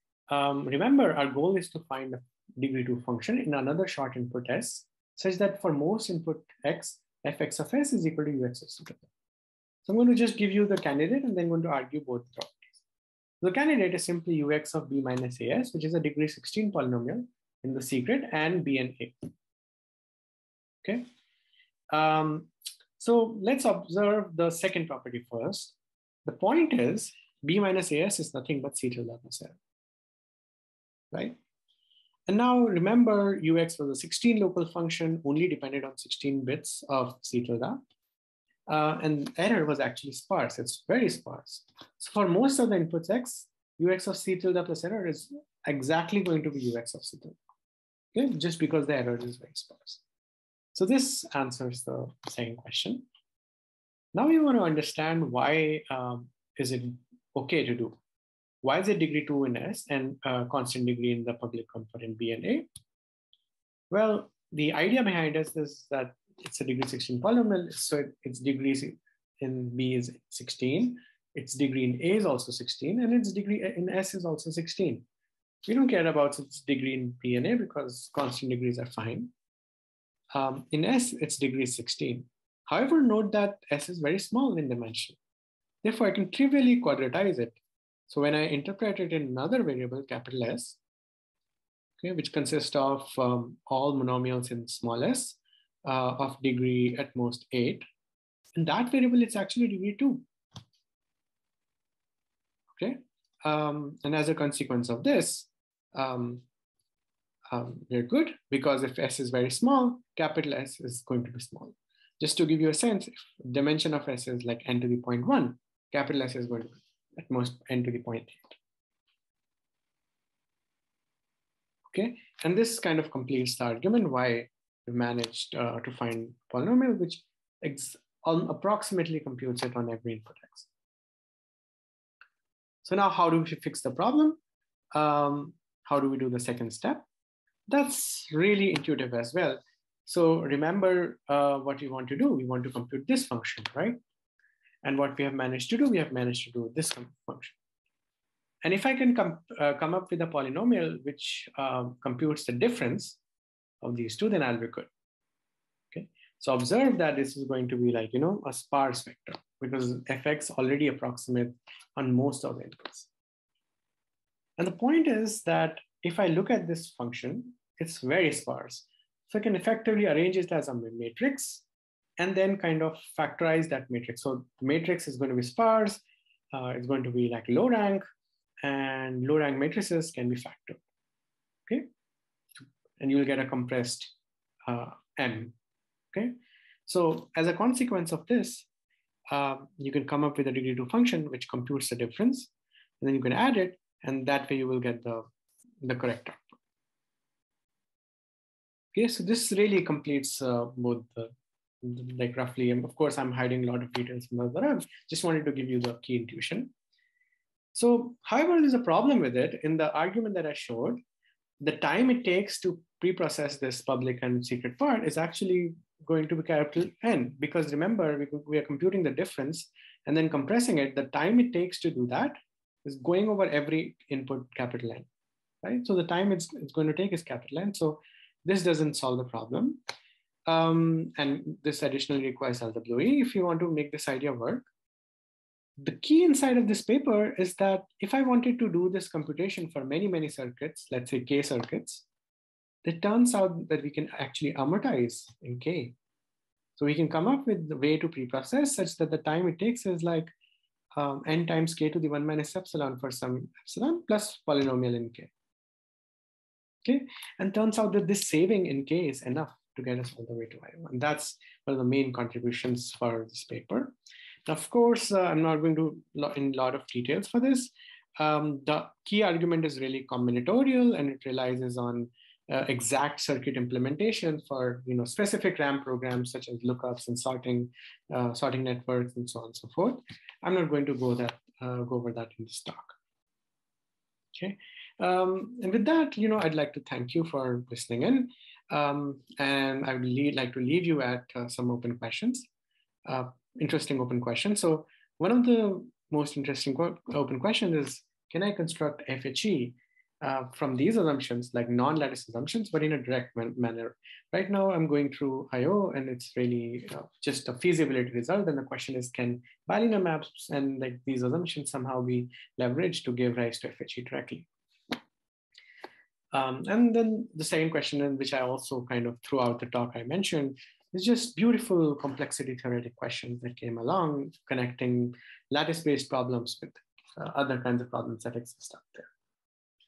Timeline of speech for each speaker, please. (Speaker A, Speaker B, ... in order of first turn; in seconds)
Speaker A: 0.3-9.1, 9.8-12.8, 13.4-19.3, 21.9-25.7, 26.2-29.6, 31.1-31.4, 32.3-37.8, 38.7-47.4, 48.1-50.0, 50.7-53.1, 54.1-58.0, 58.6-62.7, 63.9-75.0, 75.7-79.3, 80.3-85.2, 85.8-90.8, 92.0-97.8, 98.5-100.3, 102.8-106.4, 107.5-118.6, 121.9-130.7, 132.8-134.4, 134.9-137.0, 137.7-144.0, 144.8-147.6, 148.6-153.2, 153.8-154.9, 155.9-163.1, 164.6-171.6, 172.2-178.0, 178.6-180.8, 183.0-184.1, 184.7-185.6, 186.1-188.7, 189.3-192.5, 193.0-195.2, 195.8-196.5, 198.9-206.7, 207.7-211.0, 211.6-225.1, 225.6-229.8, 230.5-234.7, 235.8-242.1, 242.8-245.9, 246.8-250.3, 250.9-255.3, 256.8-263.9, 264.5-282.9, 284.4-292.5, 293.1-314.5, 316.3-329.1